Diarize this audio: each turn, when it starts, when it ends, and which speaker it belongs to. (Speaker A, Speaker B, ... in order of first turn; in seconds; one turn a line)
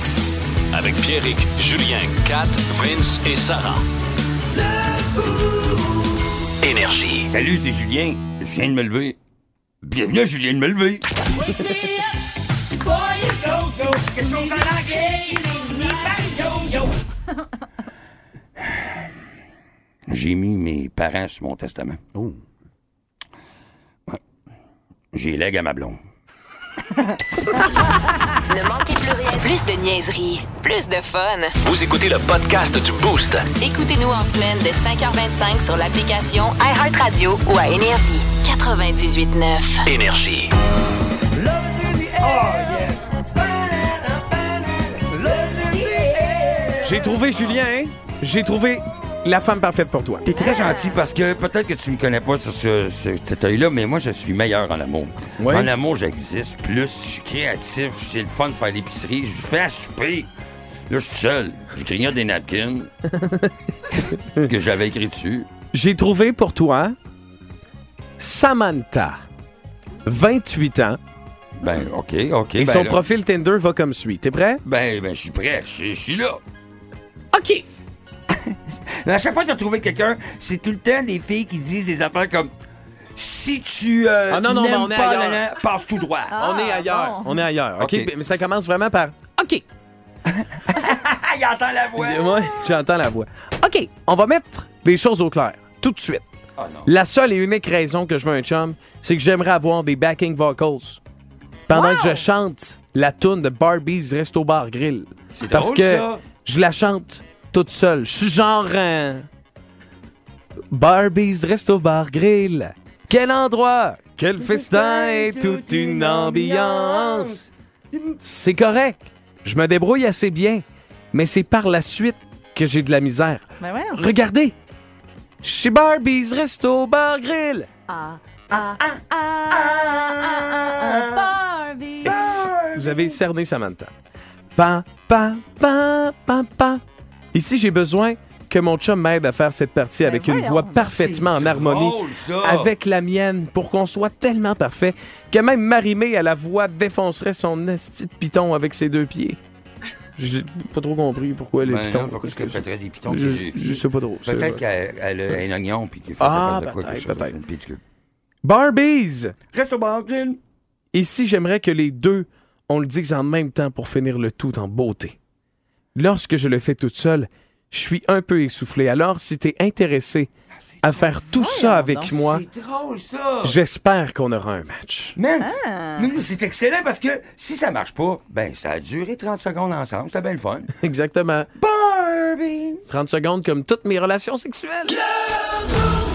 Speaker A: 0.7-3.8
Speaker A: 6.6-7.3
Speaker B: 7.3-9.2
Speaker B: 9.8-12.1
Speaker B: 12.8-16.9
Speaker B: 20.1-22.0
Speaker B: 25.1-26.0
Speaker C: 28.5-31.6
Speaker A: 31.6-33.5
Speaker C: 33.5-39.9
Speaker A: 39.8-40.5
Speaker B: 41.4-47.5
Speaker D: 46.8-50.2
Speaker B: 50.2-60.3
Speaker E: 50.3-51.0
Speaker D: 55.4-55.7
Speaker B: 60.9-62.9
Speaker D: 63.2-63.5
Speaker D: 64.2-64.5
Speaker B: 64.5-65.5
Speaker D: 65.7-66.9
Speaker D: 68.2-69.2
Speaker D: 70.0-71.0
Speaker B: 71.6-73.0
Speaker D: 72.5-74.6
Speaker B: 74.6-76.4
Speaker D: 77.3-77.7
Speaker B: 78.5-82.5
Speaker B: 83.2-86.3
Speaker D: 84.3-85.5
Speaker E: 86.3-87.4
Speaker D: 86.4-89.6
Speaker B: 87.8-88.1
Speaker B: 90.4-92.6
Speaker D: 92.0-96.2
Speaker B: 96.6-96.9
Speaker D: 96.8-101.0
Speaker D: 101.7-109.2
Speaker E: 101.7-102.3
Speaker B: 105.3-106.2
Speaker D: 110.7-117.4
Speaker B: 114.4-118.2
Speaker D: 118.2-124.5
Speaker E: 123.6-124.0
Speaker D: 125.4-127.7
Speaker E: 127.9-132.2
Speaker B: 128.5-129.0
Speaker B: 129.5-131.3
Speaker D: 132.0-133.9
Speaker B: 132.0-133.1
Speaker D: 134.6-136.8
Speaker D: 137.3-149.4
Speaker E: 140.0-140.9
Speaker B: 140.8-142.7
Speaker D: 150.2-154.6
Speaker B: 151.6-157.8
Speaker D: 156.2-157.3
Speaker D: 158.4-159.3
Speaker B: 159.5-160.4
Speaker D: 160.9-165.2
Speaker D: 165.9-170.3
Speaker D: 170.8-172.4
Speaker E: 171.3-172.2
Speaker B: 172.1-173.6
Speaker D: 173.4-175.2
Speaker B: 175.2-180.7
Speaker E: 175.4-176.1
Speaker D: 180.8-181.5
Speaker B: 181.6-182.8
Speaker D: 182.9-185.0